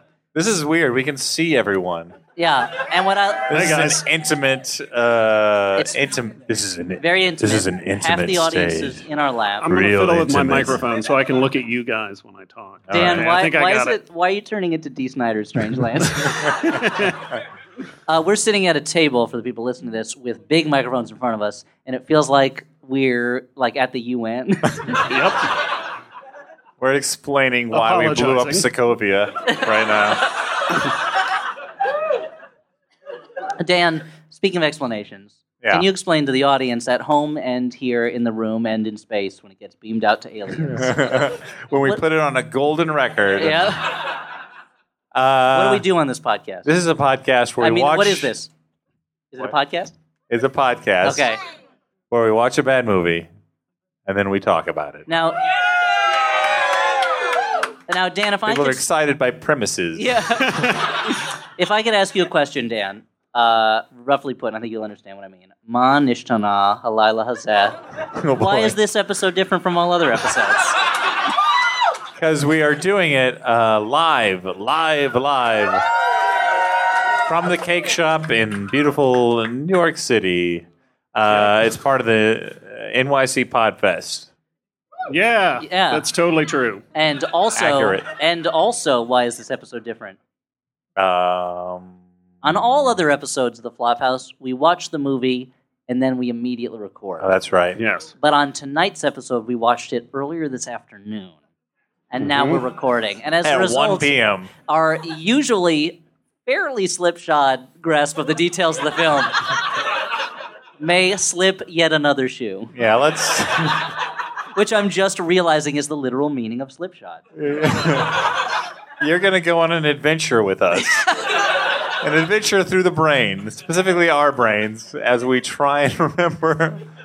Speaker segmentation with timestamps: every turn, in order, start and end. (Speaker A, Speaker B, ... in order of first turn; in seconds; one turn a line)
Speaker A: 0.3-2.1
Speaker B: 2.4-3.5
Speaker A: 3.5-9.0
Speaker C: 3.5-4.0
Speaker B: 7.0-9.7
Speaker C: 9.6-14.0
Speaker A: 9.6-10.8
Speaker A: 12.9-13.4
Speaker B: 12.9-16.9
Speaker C: 16.7-17.2
Speaker B: 18.1-25.0
Speaker C: 25.1-25.4
Speaker A: 26.8-30.3
Speaker C: 27.7-28.7
Speaker B: 33.6-41.2
Speaker A: 40.6-43.8
Speaker B: 43.4-44.0
Speaker A: 45.1-45.9
Speaker B: 45.5-46.7
Speaker A: 46.6-48.3
Speaker B: 47.6-48.5
Speaker B: 49.3-49.9
Speaker A: 50.3-51.3
Speaker B: 51.0-51.4
Speaker A: 52.1-53.3
Speaker A: 54.0-55.0
Speaker B: 55.1-55.4
Speaker B: 57.9-58.8
Speaker A: 58.5-60.1
Speaker B: 60.0-60.7
Speaker C: 60.5-60.8
Speaker B: 61.6-67.8
Speaker A: 68.1-68.8
Speaker B: 68.3-70.8
Speaker A: 72.2-75.8
Speaker A: 77.2-84.3
Speaker C: 85.1-86.8
Speaker B: 85.6-86.0
Speaker B: 86.9-90.2
Speaker A: 87.5-88.1
Speaker A: 91.0-92.0
Speaker B: 92.4-97.3
Speaker A: 97.2-97.8
Speaker C: 97.8-98.1
Speaker B: 98.2-101.4
Speaker B: 102.1-109.3
Speaker C: 102.2-102.6
Speaker A: 103.4-104.5
Speaker B: 110.8-112.7
Speaker A: 112.7-113.9
Speaker B: 114.5-117.2
Speaker A: 117.3-118.5
Speaker A: 119.0-121.0
Speaker A: 122.0-126.8